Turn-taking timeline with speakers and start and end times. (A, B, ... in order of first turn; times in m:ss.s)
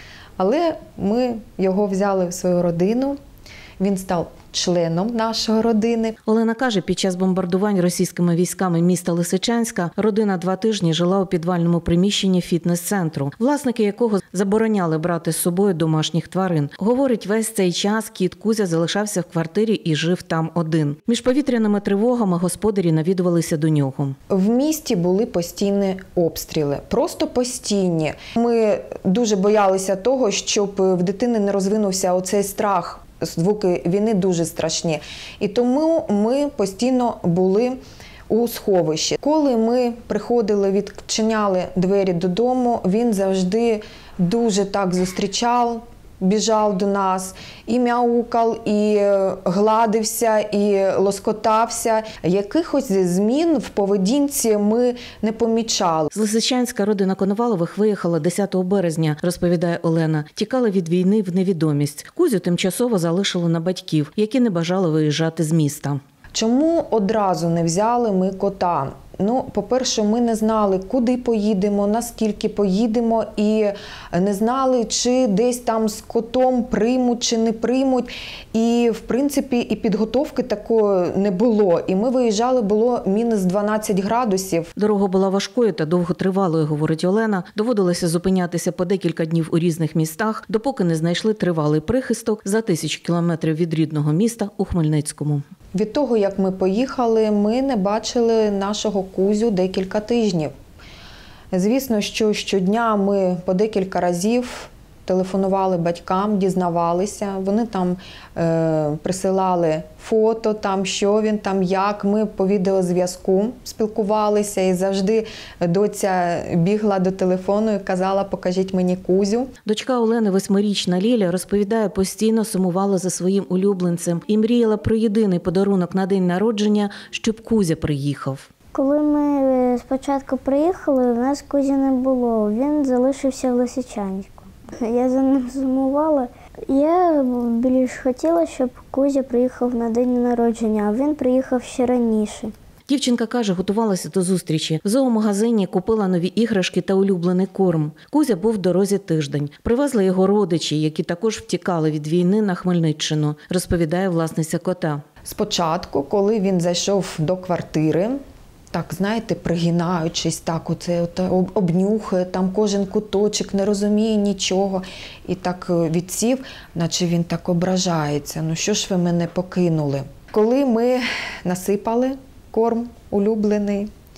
0:00.4-0:03.2 A
0:03.8-0:06.2 A
0:06.2-0:24.2 B
0:24.3-0:37.8 A
0:38.3-0:56.1 A
0:56.1-1:06.0 B
1:06.3-1:24.7 A
1:24.8-1:35.4 B
1:35.7-1:40.5 A
1:41.5-1:59.5 A
1:59.6-2:08.5 B
2:08.7-2:22.5 C
2:22.9-2:35.0 B
2:35.2-2:38.2 A
2:38.7-2:53.9 A